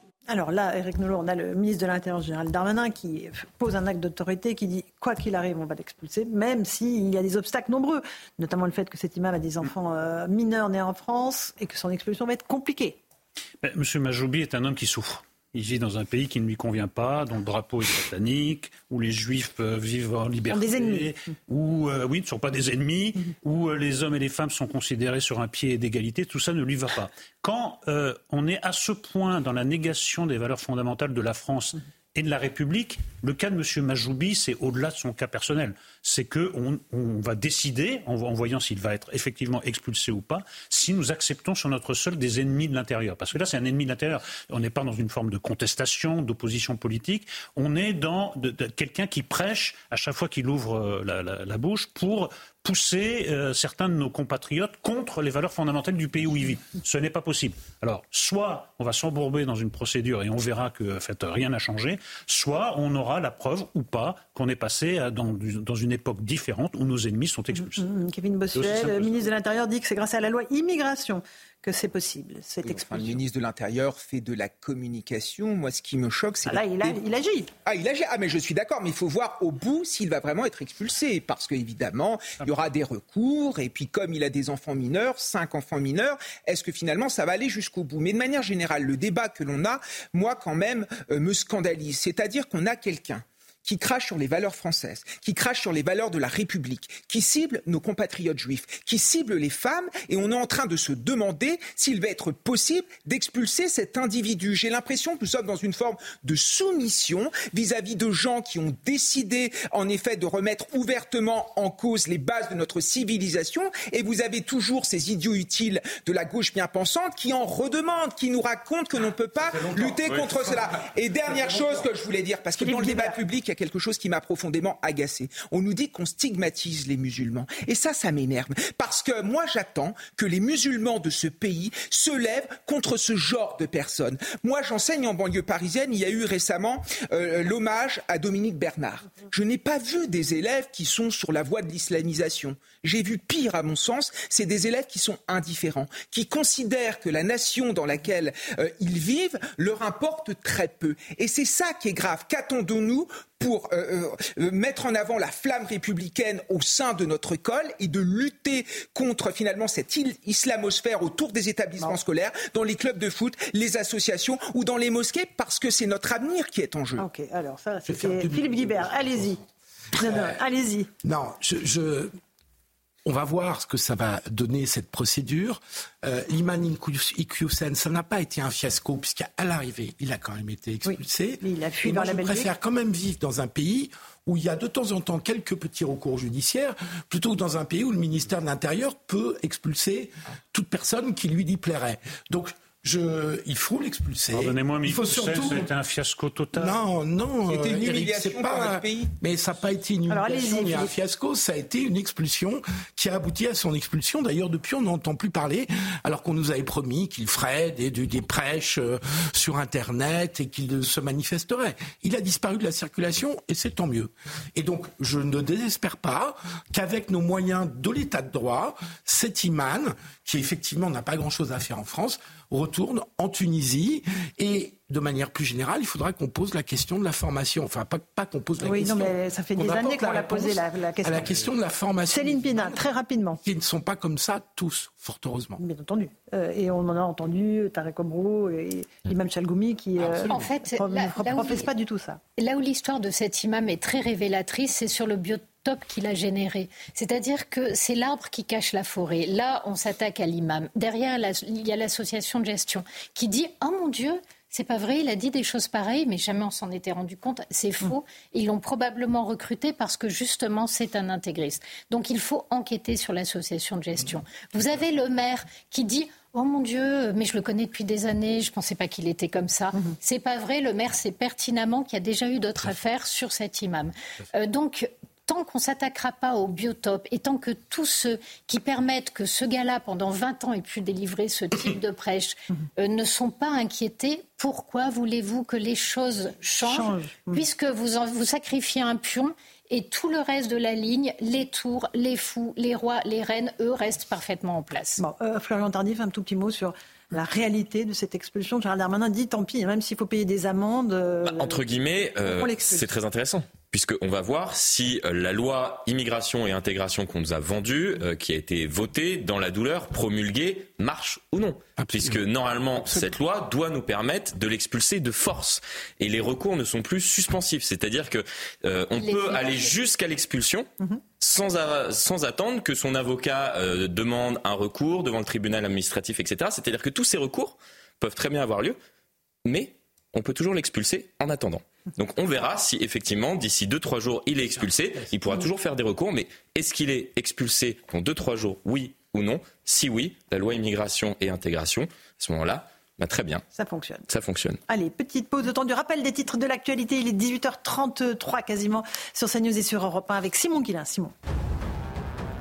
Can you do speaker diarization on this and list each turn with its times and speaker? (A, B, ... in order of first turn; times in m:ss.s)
0:00.3-0:13.0 A
0:13.6-1:07.9 B
0:20.5-0:21.1 A
1:07.6-1:13.2 A
1:08.5-1:09.3 B
1:12.6-1:17.0 C
1:16.4-1:17.5 A
1:17.7-2:47.1 C
2:02.6-2:03.2 A
2:47.0-2:49.4 A
2:47.9-2:49.4 D
2:50.0-2:50.9 A
2:50.0-2:50.4 D
2:51.0-2:52.2 D
2:53.1-3:15.7 D
3:00.8-3:02.5 A
3:14.3-3:16.8 B
3:16.6-3:52.8 D
3:17.5-3:19.1 C
3:20.1-3:20.9 A
3:48.6-3:51.4 A
3:52.1-3:53.4 A
3:53.4-3:55.6 D
3:55.6-4:02.2 A
4:00.0-4:00.4 D
4:00.2-4:01.7 E
4:02.4-4:55.0 E
4:46.6-4:47.4 A
4:55.0-5:01.6 A
5:01.2-5:20.7 F
5:02.2-5:02.8 A
5:11.8-5:12.2 D
5:19.0-5:19.8 E
5:21.2-5:28.8 F
5:29.4-5:43.4 F
5:34.5-5:35.2 D
5:43.5-5:44.0 A
5:44.1-5:44.6 F
5:44.7-5:51.1 A